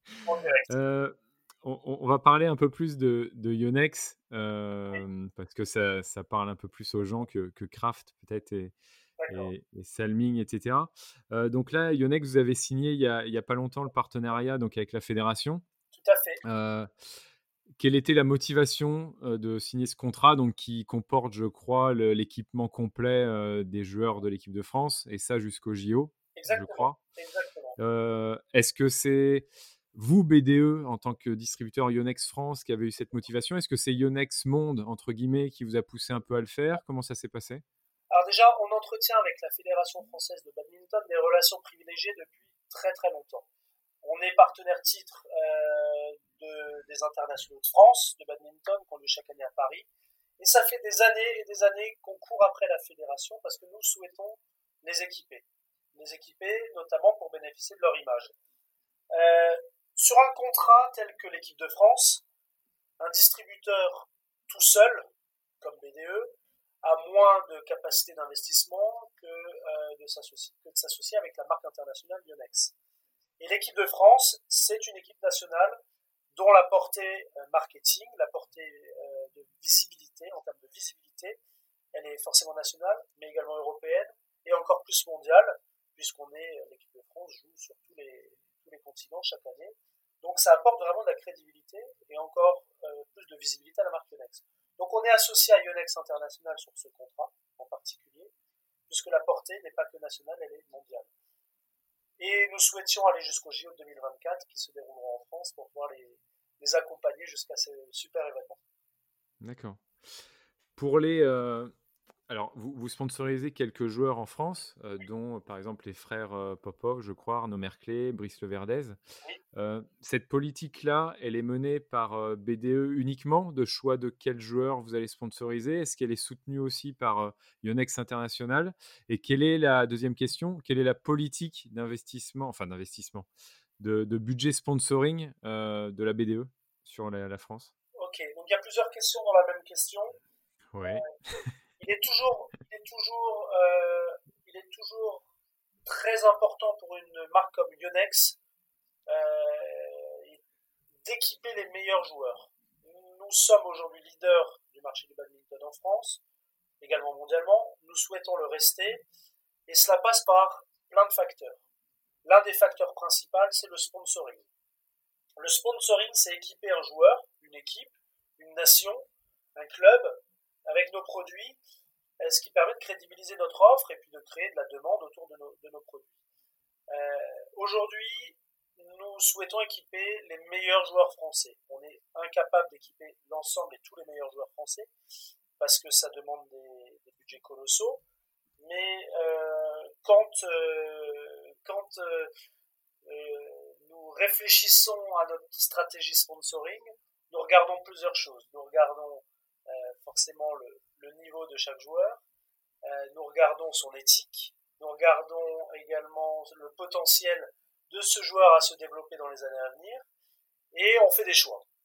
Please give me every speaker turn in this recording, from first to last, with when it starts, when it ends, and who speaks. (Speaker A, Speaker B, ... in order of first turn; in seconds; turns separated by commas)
Speaker A: 0.2-0.7, Speaker B: 0.7-8.7, Speaker A: 9.2-9.5, Speaker B: 9.3-15.6, Speaker A: 15.9-16.4, Speaker B: 16.4-16.9, Speaker B: 17.8-27.0, Speaker A: 26.3-27.8, Speaker B: 27.8-37.6, Speaker A: 38.1-43.5, Speaker A: 44.0-49.9, Speaker A: 50.4-58.3, Speaker A: 59.1-62.2, Speaker A: 63.0-65.1, Speaker A: 65.6-72.7, Speaker A: 73.4-75.8, Speaker A: 76.3-81.4, Speaker A: 81.9-98.3, Speaker A: 98.9-101.1, Speaker A: 102.2-108.6, Speaker B: 109.4-109.8, Speaker B: 110.8-111.7, Speaker B: 112.3-119.0, Speaker B: 119.5-133.3, Speaker B: 133.8-137.7, Speaker A: 138.0-140.2, Speaker B: 140.7-141.1, Speaker A: 140.9-141.1, Speaker A: 141.8-145.3, Speaker A: 145.8-148.4, Speaker A: 149.1-150.4, Speaker A: 151.0-156.2, Speaker A: 156.8-159.0, Speaker A: 159.7-161.6, Speaker A: 162.2-164.4, Speaker A: 165.4-171.6, Speaker A: 172.2-176.1, Speaker A: 176.9-184.9, Speaker A: 185.6-188.0, Speaker A: 188.6-192.3, Speaker A: 193.0-202.2, Speaker A: 202.8-210.1, Speaker A: 210.7-211.7